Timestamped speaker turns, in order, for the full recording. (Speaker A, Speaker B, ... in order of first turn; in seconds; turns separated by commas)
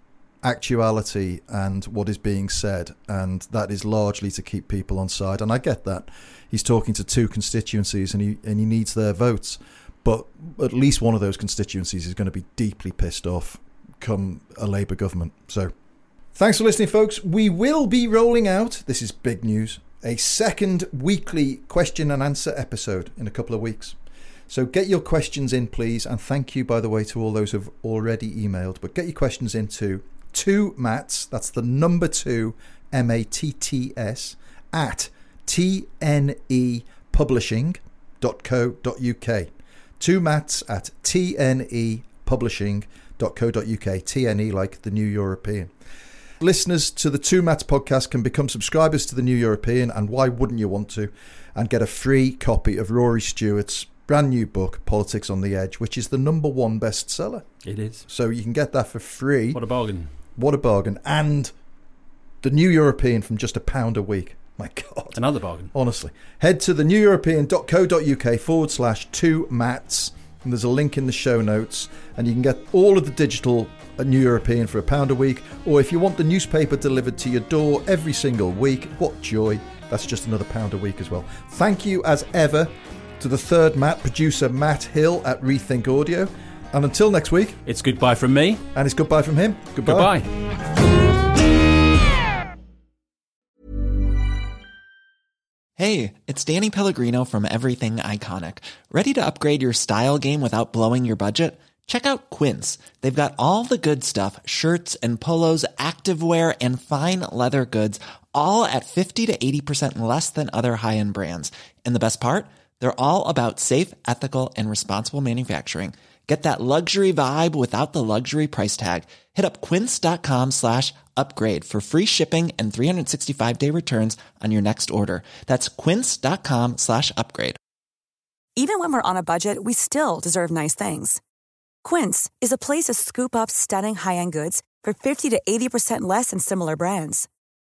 Speaker A: 0.4-15.7, Speaker A: 16.3-24.0, Speaker A: 24.5-45.7, Speaker A: 46.4-57.5, Speaker B: 57.6-58.0, Speaker A: 58.0-59.6, Speaker B: 59.5-60.1, Speaker A: 60.4-61.5, Speaker A: 62.4-65.2, Speaker B: 65.1-65.7, Speaker A: 65.7-87.6, Speaker B: 87.6-88.6, Speaker A: 88.7-90.2, Speaker B: 89.8-90.3, Speaker C: 95.8-127.6, Speaker D: 128.6-131.2, Speaker D: 131.8-137.3